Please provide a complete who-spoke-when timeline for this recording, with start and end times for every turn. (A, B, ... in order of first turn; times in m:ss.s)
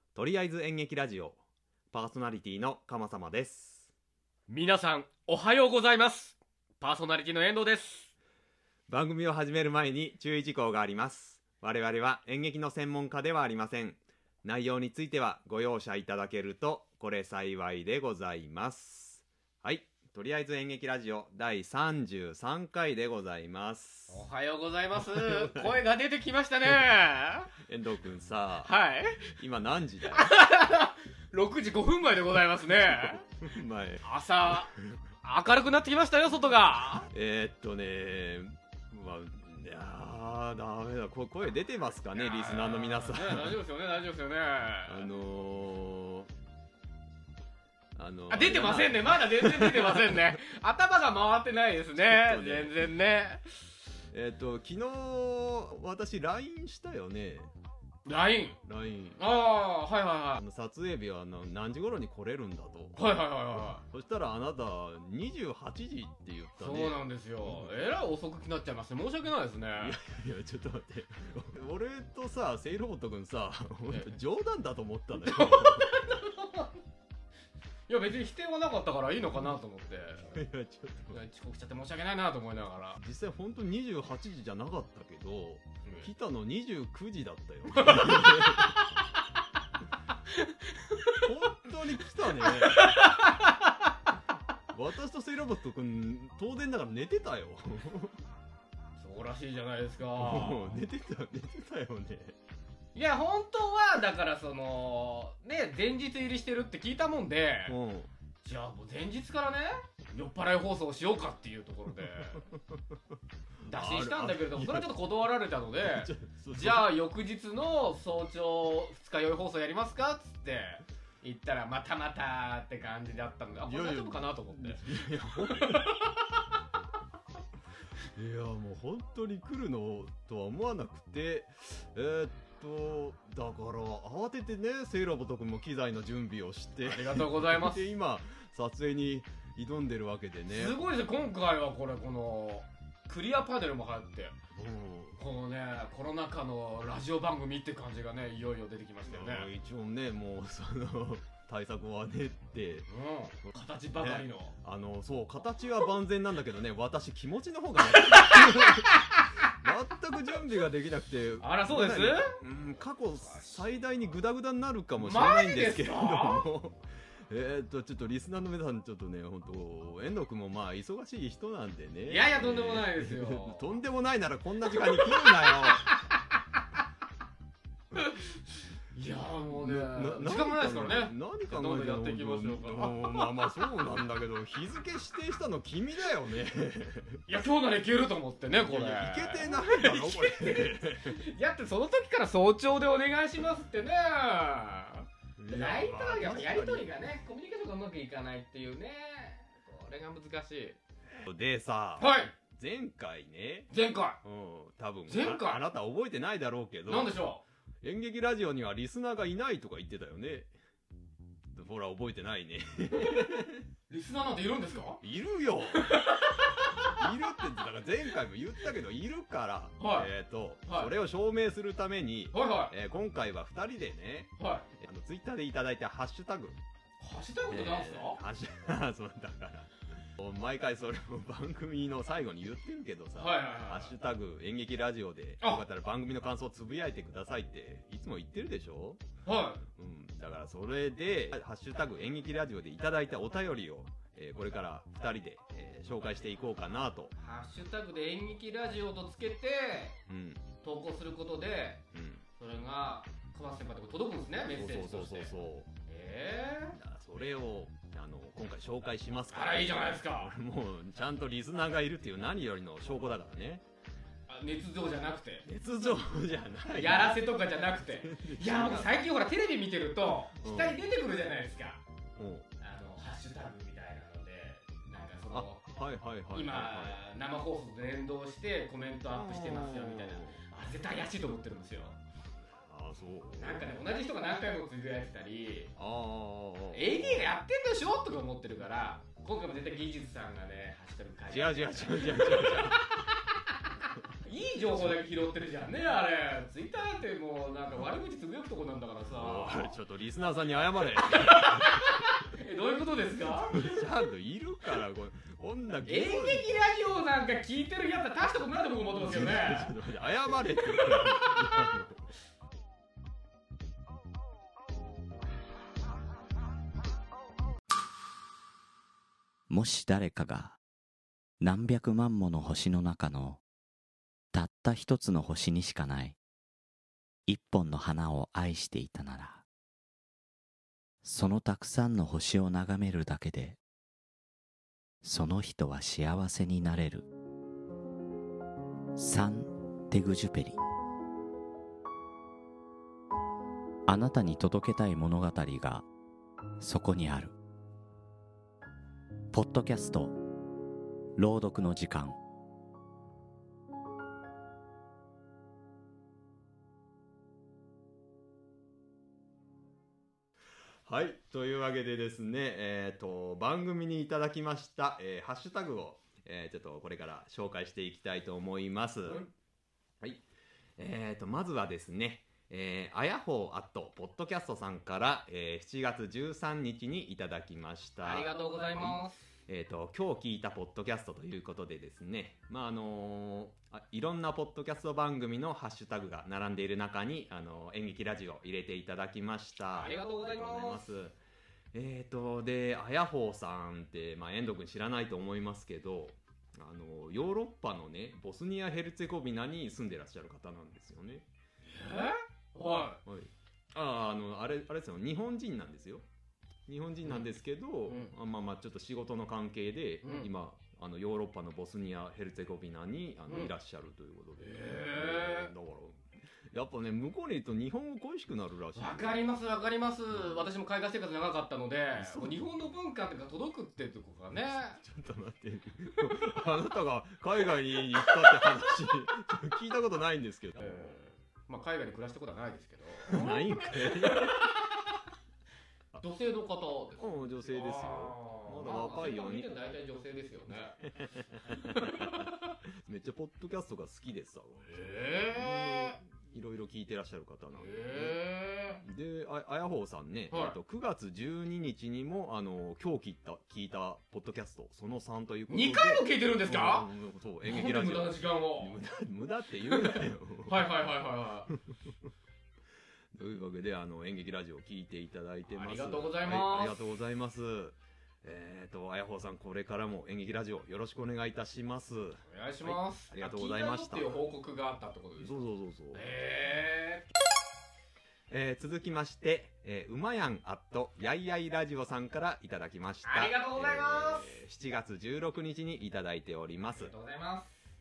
0:00.1-0:01.4 A
0:01.9-0:03.9 A
0:04.5-0:08.1 B
0:08.9-0:24.2 A
0:24.1-0:27.5 B
0:25.0-0:25.8 A
0:27.6-0:28.7 A
0:28.6-0:29.3 B
0:29.3-0:30.3 A
0:30.1-0:33.3 B
0:32.8-0:35.0 A
0:34.0-0:37.1 B
0:37.0-0:43.6 A
0:42.1-0:45.1 B
0:44.9-0:46.3 A
0:48.0-0:50.4 A
0:48.3-0:53.4 B
0:52.0-0:52.8 A
0:54.1-0:57.5 A
0:58.0-0:58.6 B
0:58.6-0:59.2 A
0:59.2-1:00.4 B
1:00.4-1:07.7 A
1:03.0-1:03.8 B
1:06.6-1:10.0 B
1:09.8-1:16.2 A
1:15.2-1:16.8 B
1:17.9-1:20.4 B
1:20.3-1:21.2 A
1:21.1-1:23.0 B
1:23.0-1:28.8 A
1:27.7-1:28.9 B
1:30.4-1:31.3 B
1:31.2-1:33.1 A
1:32.4-1:33.9 B
1:34.7-1:38.2 A
1:39.0-1:40.8 B
1:40.2-1:42.4 A
1:43.0-1:47.8 B
1:47.7-1:48.1 A
1:48.4-1:52.4 B
1:52.4-1:52.8 A
1:53.6-2:06.3 B
1:53.7-1:54.9 A
1:55.8-1:56.9 A
2:03.6-2:05.9 A
2:08.1-2:20.8 A
2:16.8-2:17.8 B
2:20.5-2:24.4 B
2:24.5-2:25.2 A
2:25.2-2:29.5 B
2:29.1-2:32.9 A
2:32.9-2:34.6 B
2:34.0-2:38.9 A
2:37.8-2:39.4 B
2:39.6-2:55.9 A
2:41.4-2:42.4 B
2:43.3-2:43.5 B
2:45.0-2:46.5 B
2:52.1-2:53.7 B
2:55.0-2:56.0 B
2:58.0-2:58.3 B
2:58.9-3:03.2 B
2:59.5-3:07.2 A
3:07.3-3:20.8 B
3:08.5-3:11.2 A
3:15.4-3:17.0 A
3:21.2-3:23.7 A
3:22.0-3:22.3 B
3:23.7-3:24.2 B
3:24.2-3:27.2 A
3:25.1-3:25.6 B
3:26.9-3:27.4 B
3:27.8-3:30.5 A
3:31.5-3:33.7 A
3:33.9-3:35.0 B
3:35.0-3:36.0 A
3:35.7-3:37.0 B
3:36.9-3:46.6 A
3:39.8-3:40.1 B
3:40.6-3:40.9 B
3:42.3-3:42.7 B
3:44.4-3:44.7 B
3:47.0-3:48.2 B
3:47.5-3:59.0 A
3:53.2-3:53.9 B
3:59.2-3:59.6 B
3:59.6-4:07.1 A
4:07.2-4:10.0 B
4:10.1-4:10.5 A
4:10.6-4:11.8 B
4:11.9-4:12.2 A
4:12.4-4:15.3 B
4:14.4-4:15.7 A
4:15.9-4:16.8 B
4:16.8-4:23.6 A
4:19.3-4:20.3 B
4:24.3-4:25.5 B
4:25.4-4:28.9 A
4:26.7-4:31.8 B
4:30.2-4:30.8 A
4:32.2-4:32.5 A
4:32.6-4:35.6 B
4:35.3-4:37.0 A
4:36.3-4:42.0 B
4:39.1-4:40.4 A
4:42.5-4:43.7 A
4:43.4-4:45.7 B
4:45.8-4:47.3 A
4:46.7-4:53.6 B
4:51.3-4:52.8 A
4:54.2-4:59.8 B
4:59.1-5:01.8 A
5:01.0-5:03.8 B
5:03.5-5:06.5 A
5:05.8-5:09.8 B
5:09.0-5:12.1 A
5:10.6-5:11.2 B
5:19.5-5:20.6 C
5:21.4-5:23.4 C
5:24.3-5:26.2 C
5:27.3-5:29.4 C
5:31.0-5:33.6 C
5:35.0-5:37.1 C
5:39.0-5:40.6 C
5:43.9-5:45.9 C
5:46.6-5:47.4 C
5:49.3-5:50.2 C
5:51.2-5:52.2 C
6:00.9-6:09.2 A
6:09.1-6:09.3 B
6:10.8-6:31.2 A
6:18.0-6:19.2 B
6:29.8-6:30.9 B
6:31.7-6:41.3 A
6:41.7-6:43.0 B
6:43.0-6:46.1 A
6:46.7-6:59.2 A
6:47.9-6:48.1 B
6:50.0-6:50.3 B
6:54.4-6:55.5 B
6:58.8-7:04.8 B
7:00.1-7:00.4 A
7:02.0-7:02.4 A
7:04.5-7:11.0 A
7:10.6-7:14.8 B
7:13.1-7:14.5 A
7:16.0-7:20.8 B
7:17.0-7:19.5 A
7:20.8-7:28.2 A
7:21.5-7:22.5 B
7:24.7-7:26.0 B
7:27.6-7:28.8 B
7:28.8-7:40.7 A
7:30.3-7:30.6 B
7:35.5-7:36.9 B
7:37.4-7:38.8 B
7:39.7-7:41.5 B
7:41.5-7:41.9 A
7:43.1-7:54.2 A
7:45.5-7:46.8 B
7:52.3-7:57.1 B
7:55.2-7:56.0 A
7:58.3-8:06.9 A
8:03.0-8:04.4 B
8:06.7-8:07.6 B